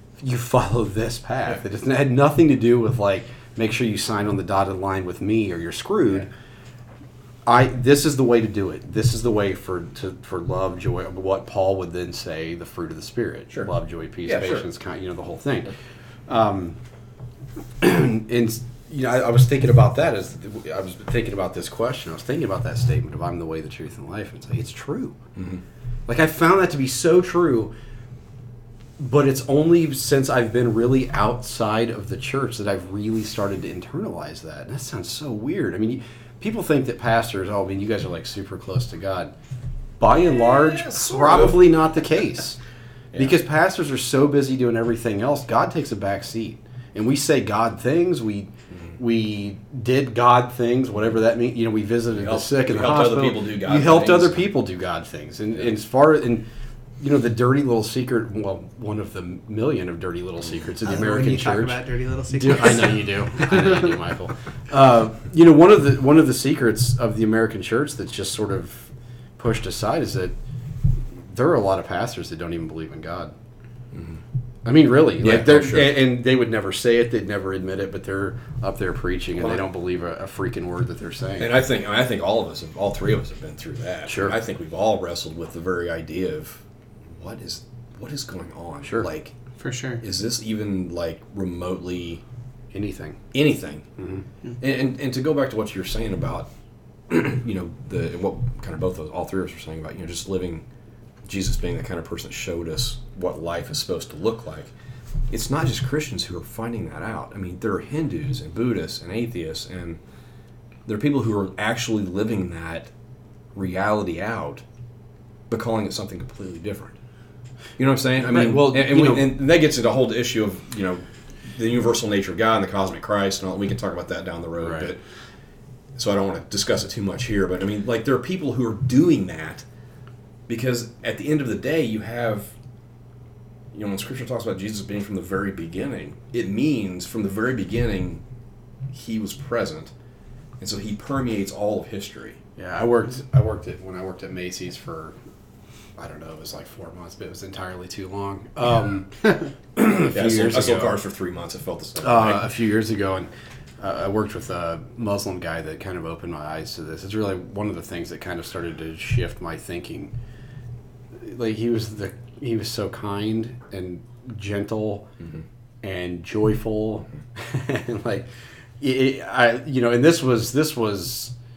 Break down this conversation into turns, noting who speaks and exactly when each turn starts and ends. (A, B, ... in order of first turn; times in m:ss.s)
0:00.2-0:06.3 A
0:07.5-0:15.8 A
0:14.2-0:14.7 B
0:16.3-0:16.8 A
0:17.8-0:25.2 A
0:25.4-0:25.6 B
0:26.1-0:27.7 A
0:29.0-0:39.3 A
0:40.0-0:42.6 A
0:40.1-0:41.8 B
0:43.2-0:56.5 A
0:52.1-0:54.5 B
0:57.0-1:01.8 A
1:00.8-1:04.0 C
1:02.3-1:10.4 A
1:11.1-1:13.3 A
1:13.9-1:14.2 B
1:14.6-1:21.5 A
1:15.2-1:16.0 B
1:21.4-1:29.3 B
1:24.1-1:24.4 A
1:29.6-1:30.0 C
1:30.0-1:32.2 B
1:32.7-1:33.2 A
1:33.3-1:34.0 B
1:34.0-1:34.2 A
1:34.6-1:36.5 B
1:37.1-1:40.6 B
1:41.3-1:44.7 B
1:45.3-1:50.0 B
1:50.9-1:52.9 B
1:53.6-1:54.6 B
1:55.5-1:57.0 B
1:57.8-2:05.0 B
1:58.2-1:59.4 A
2:04.6-2:05.0 A
2:06.0-2:09.6 B
2:10.5-2:12.5 B
2:13.7-2:18.2 B
2:18.9-2:19.9 B
2:20.6-2:22.4 B
2:22.6-2:25.2 A
2:26.0-2:31.0 A
2:30.1-2:32.4 B
2:32.0-2:40.1 A
2:41.2-2:45.1 A
2:45.8-2:51.3 A